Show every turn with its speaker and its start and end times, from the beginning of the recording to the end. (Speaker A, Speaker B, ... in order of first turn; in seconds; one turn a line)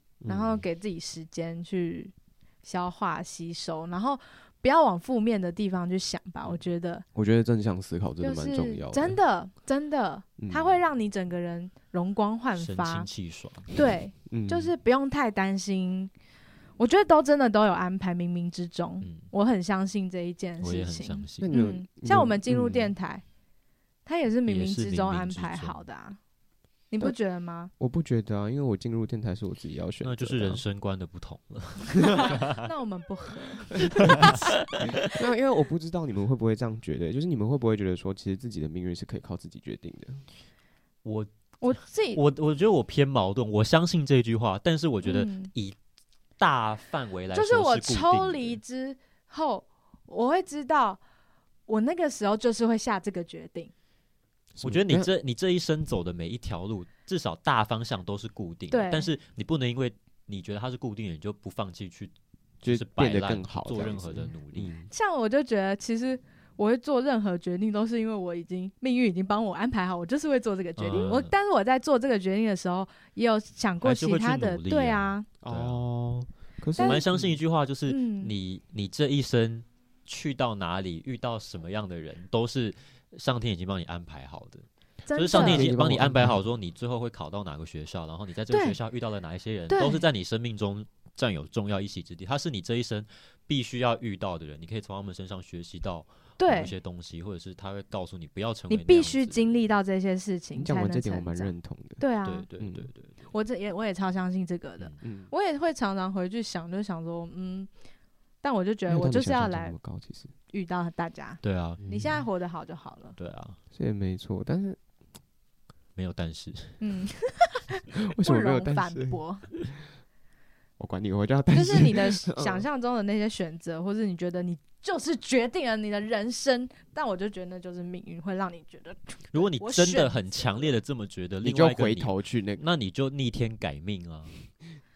Speaker A: 0.2-0.7
Speaker B: 0.3-2.1
Speaker B: 2.6-7.0
Speaker A: 7.2-9.2
Speaker B: 8.2-13.1
Speaker A: 10.4-10.8
Speaker C: 12.6-13.7
Speaker B: 13.7-16.1
Speaker A: 14.3-14.7
Speaker B: 16.8-23.2
Speaker C: 19.0-19.3
Speaker C: 20.6-21.6
Speaker A: 21.4-22.9
Speaker B: 24.1-26.2
Speaker C: 24.4-25.8
Speaker B: 26.9-27.7
Speaker A: 27.8-30.6
Speaker C: 30.0-32.6
Speaker B: 32.1-34.4
Speaker A: 33.8-40.3
Speaker C: 34.0-34.9
Speaker C: 41.0-45.8
Speaker B: 41.6-42.2
Speaker B: 45.0-45.5
Speaker C: 46.4-48.6
Speaker B: 47.3-51.0
Speaker B: 51.7-53.7
Speaker A: 54.6-55.1
Speaker C: 54.6-62.1
Speaker B: 58.7-59.1
Speaker A: 62.6-64.9
Speaker C: 62.6-64.7
Speaker B: 64.9-75.3
Speaker C: 70.8-71.3
Speaker C: 73.8-75.8
Speaker A: 75.4-77.4
Speaker B: 76.8-77.1
Speaker C: 76.8-99.5
Speaker B: 77.9-78.3
Speaker B: 85.1-85.7
Speaker A: 85.3-86.4
Speaker B: 88.5-88.8
Speaker B: 89.7-90.0
Speaker B: 96.4-96.7
Speaker B: 98.7-102.5
Speaker A: 100.6-102.0
Speaker C: 102.2-103.2
Speaker A: 102.6-102.9
Speaker B: 103.3-107.7
Speaker A: 105.0-105.3
Speaker B: 108.4-109.8
Speaker A: 108.9-110.3
Speaker B: 110.5-113.2
Speaker C: 111.4-111.8
Speaker A: 111.8-112.2
Speaker C: 113.2-113.6
Speaker A: 113.7-114.8
Speaker C: 116.0-116.8
Speaker B: 116.8-119.5
Speaker A: 118.0-119.2
Speaker A: 120.8-122.7
Speaker B: 121.5-130.7
Speaker C: 129.3-134.4
Speaker A: 131.4-132.6